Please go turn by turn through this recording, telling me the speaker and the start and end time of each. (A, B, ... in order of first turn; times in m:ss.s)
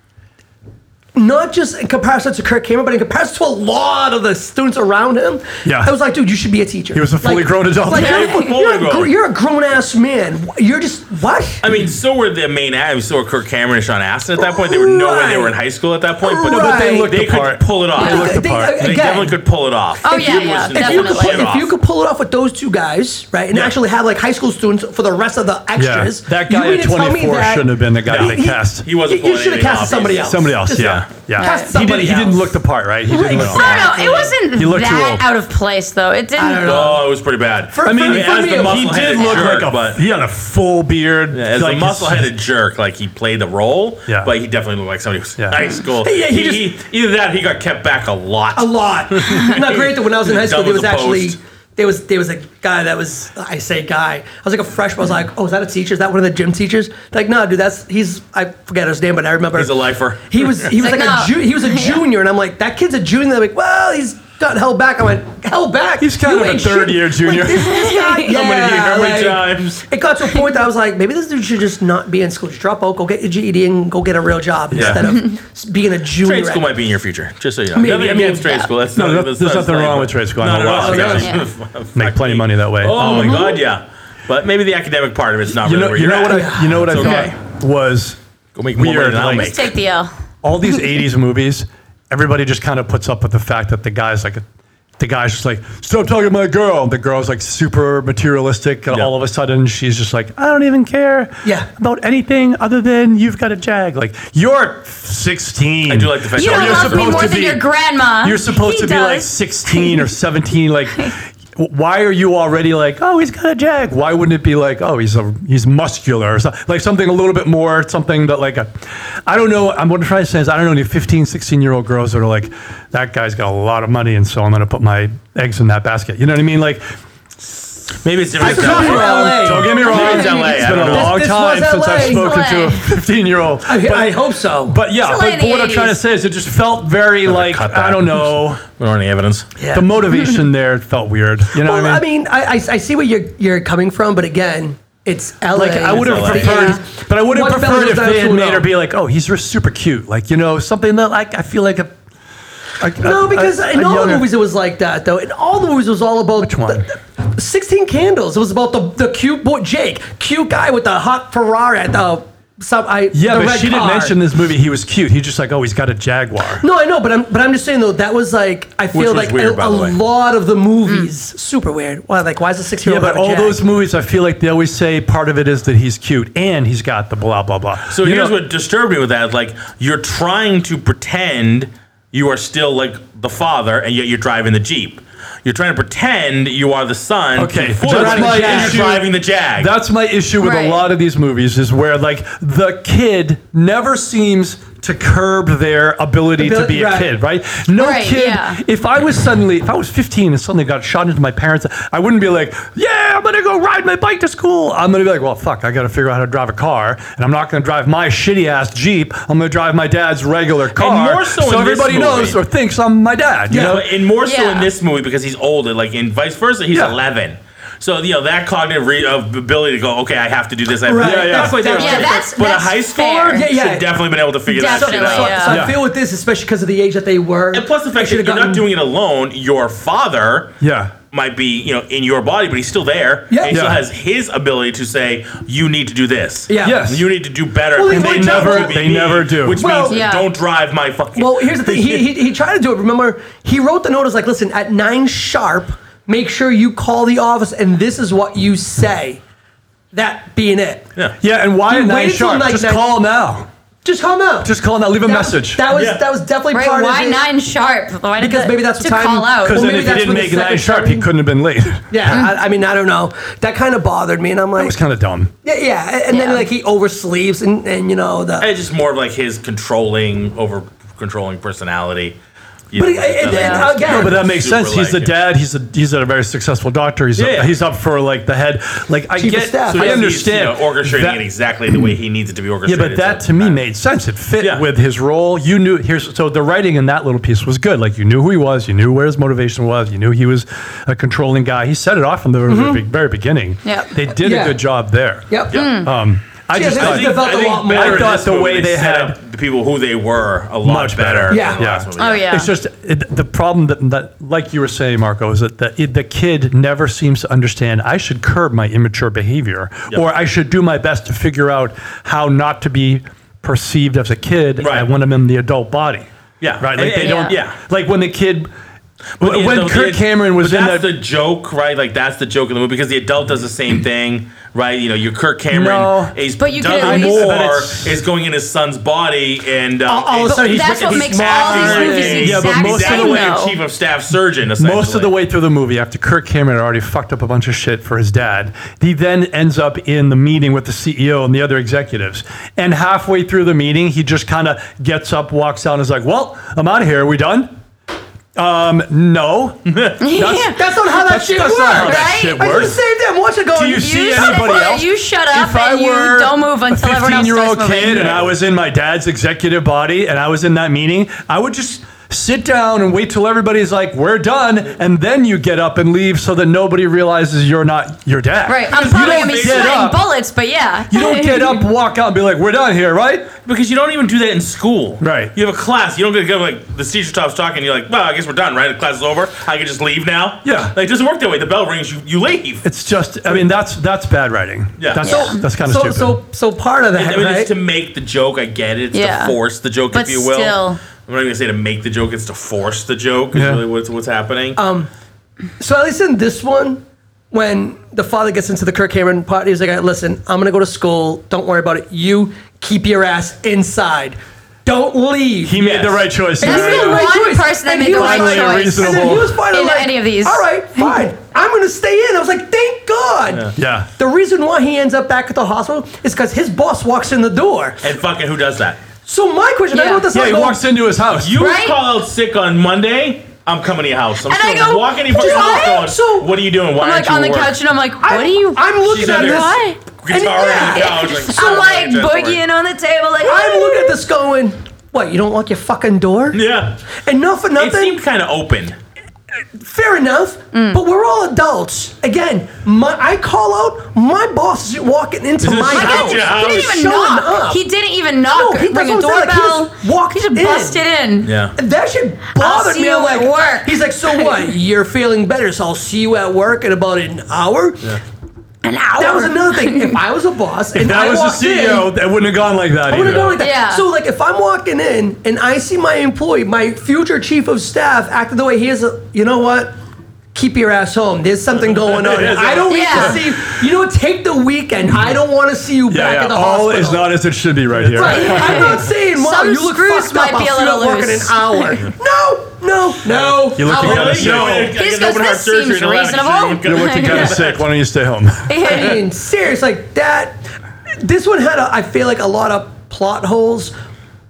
0:01.2-0:11.6 A
0:05.6-0:06.0 B
0:06.9-0:08.2 B
0:07.9-0:09.1 C
0:08.1-0:08.4 D
0:11.6-0:21.7 C
0:14.4-0:15.6 A
0:16.2-0:17.2 A
0:16.4-0:19.2 B
0:18.0-0:19.4 A
0:20.0-0:21.5 D
0:20.0-0:32.5 A
0:25.8-0:28.9 B
0:28.1-0:31.0 C
0:30.2-0:33.9 B
0:31.4-0:31.7 D
0:33.1-0:34.3 A
0:33.3-0:33.6 C
0:33.3-0:36.9 D
0:34.5-0:35.3 B
0:36.4-0:37.1 A
0:36.6-0:40.0 C
0:37.7-0:39.5 A
0:37.8-0:42.3 B
0:41.3-0:51.4 C
0:45.4-0:45.7 B
0:46.0-0:46.8 A
0:48.6-1:16.7 A
0:59.5-1:00.7 C
1:00.8-1:02.1 D
1:06.0-1:07.8 B
1:07.5-1:08.4 D
1:08.2-1:09.8 C
1:14.7-1:15.1 B
1:14.7-1:15.1 C
1:16.2-1:27.4 C
1:17.8-1:18.6 A
1:18.9-1:21.3 B
1:20.7-1:21.4 A
1:21.2-1:21.4 D
1:22.0-1:23.5 B
1:22.9-1:23.6 A
1:25.6-1:28.2 B
1:26.3-1:26.7 A
1:27.0-1:27.2 D
1:28.6-1:29.7 C
1:28.8-1:29.6 B
1:29.3-1:30.1 D
1:30.4-1:34.4 B
1:35.0-1:47.6 B
1:45.9-1:47.4 C
1:46.4-1:50.0 D
1:48.2-2:06.8 B
2:08.0-2:11.2 C
2:08.4-2:18.6 B
2:08.4-2:12.5 A
2:08.8-2:10.4 D
2:12.0-2:12.9 D
2:13.6-2:14.8 A
2:15.0-2:16.0 D
2:17.2-2:19.5 C
2:19.6-2:19.9 A
2:19.7-2:22.0 B
2:21.6-2:28.7 A
2:25.5-2:31.9 B
2:25.9-2:26.7 C
2:26.5-2:26.7 D
2:32.8-2:34.3 B
2:33.0-2:44.2 A
2:36.4-2:36.9 B
2:43.1-2:46.6 B
2:46.6-2:53.7 A
2:48.9-2:50.0 C
2:52.8-2:58.4 B
2:57.9-3:09.7 C
3:07.4-3:33.8 B
3:07.8-3:09.0 A
3:10.4-3:10.9 D
3:16.4-3:17.1 A
3:17.8-3:18.6 D
3:30.7-3:32.4 C
3:33.5-3:33.8 A
3:33.5-3:45.5 C
3:34.2-3:34.7 D
3:36.7-3:37.0 B
3:40.8-3:42.3 A
3:41.0-3:42.0 B
3:41.7-3:43.5 D
3:43.3-3:44.0 A
3:44.5-3:45.7 D
3:44.6-3:48.7 A
3:45.5-3:45.8 B
3:47.5-3:50.5 C
3:50.6-3:50.9 B
3:51.1-4:02.1 C
3:53.3-3:53.6 A
3:53.5-3:53.8 B
3:56.5-3:56.9 A
3:56.6-3:57.1 B
3:57.8-3:58.9 A
3:57.9-3:59.6 B
3:59.5-4:00.0 A
3:59.9-4:00.3 D
4:01.2-4:09.2 A
4:09.9-4:10.9 A
4:11.2-4:13.5 B
4:11.7-4:13.0 A
4:13.8-4:17.2 A
4:14.4-4:15.7 B
4:15.7-4:16.0 C
4:16.5-4:19.7 D
4:18.2-4:21.1 A
4:19.4-4:22.2 B
4:21.9-4:24.8 A
4:24.6-4:25.3 B
4:25.4-4:28.5 A
4:26.1-4:26.5 D
4:28.4-4:32.2 C
4:32.7-4:35.2 C
4:32.8-4:34.2 A
4:33.2-4:33.7 D
4:33.8-4:41.2 B
4:37.2-4:37.6 C
4:39.2-4:40.1 A
4:39.7-4:43.6 C
4:42.7-4:59.2 B
4:44.4-4:44.7 C
4:52.5-4:52.8 A
4:53.6-4:53.9 D
4:54.1-4:54.6 A
4:55.3-4:55.6 A
4:55.5-4:55.9 C
4:55.5-4:55.9 D
4:56.5-4:58.2 A
4:56.6-5:02.4 C
5:00.6-5:18.5 B
5:01.3-5:01.6 A
5:02.0-5:02.5 D
5:14.6-5:14.9 C
5:16.4-5:17.6 C
5:17.0-5:17.4 D
5:19.2-5:35.1 C
5:19.2-5:20.9 B
5:25.5-5:28.0 B
5:26.4-5:27.4 D
5:29.9-5:32.4 A
5:30.3-5:33.6 D
5:32.1-5:33.3 B
5:34.6-5:47.5 B
5:48.4-5:52.8 B
5:49.7-5:50.0 C
5:50.0-5:50.6 D
5:50.6-5:54.6 A
5:51.7-5:52.5 D
5:53.5-6:10.0 B
5:53.8-5:58.2 D
5:58.0-5:58.4 C
6:08.5-6:11.6 D
6:08.7-6:09.9 C
6:10.9-6:13.3 B
6:13.5-6:22.6 C
6:15.0-6:15.3 B
6:20.4-6:20.7 B
6:22.6-6:26.2 B
6:24.8-6:25.3 C
6:25.0-6:25.4 D
6:25.5-6:27.5 A
6:26.9-6:34.6 C
6:28.9-6:29.4 D
6:29.9-6:30.8 D
6:33.3-6:33.6 B
6:34.6-6:34.9 A
6:35.6-6:45.7 A
6:45.4-6:47.1 B
6:45.6-6:46.1 C
6:46.4-6:57.8 A
6:46.4-6:51.0 D
6:47.9-6:49.4 B
6:53.6-6:53.9 B
6:57.8-6:58.8 C
6:59.0-7:00.6 A
6:59.7-7:00.1 D
7:00.1-7:01.5 B
7:01.1-7:07.6 C
7:01.4-7:01.8 D
7:04.3-7:05.9 D
7:05.1-7:06.3 A
7:06.8-7:09.8 D
7:08.0-7:11.2 A
7:08.8-7:12.4 C
7:10.5-7:14.0 D
7:13.2-7:16.4 A
7:16.3-7:16.8 C
7:17.0-7:18.0 A
7:17.6-7:18.8 C
7:19.6-7:27.6 A
7:20.5-7:20.8 D
7:25.4-7:26.8 C
7:25.7-7:31.3 D
7:28.3-7:30.8 A
7:31.2-7:31.6 C
7:31.6-7:37.8 A
7:32.4-7:34.6 D
7:38.6-7:40.0 D
7:39.0-7:41.9 A
7:40.7-7:43.4 B
7:42.9-7:49.7 A
7:43.0-7:43.2 C
7:43.4-7:43.8 D
7:50.3-7:57.2 A
7:51.7-7:52.8 C
7:52.7-7:53.2 D
7:55.9-7:58.8 B
7:57.8-8:04.4 A
7:58.0-8:01.8 D
8:03.3-8:07.6 C
8:03.5-8:04.8 B
8:03.9-8:07.4 D
8:06.6-8:08.7 B
8:08.5-8:09.0 D
8:08.6-8:10.4 A
8:11.0-8:13.7 A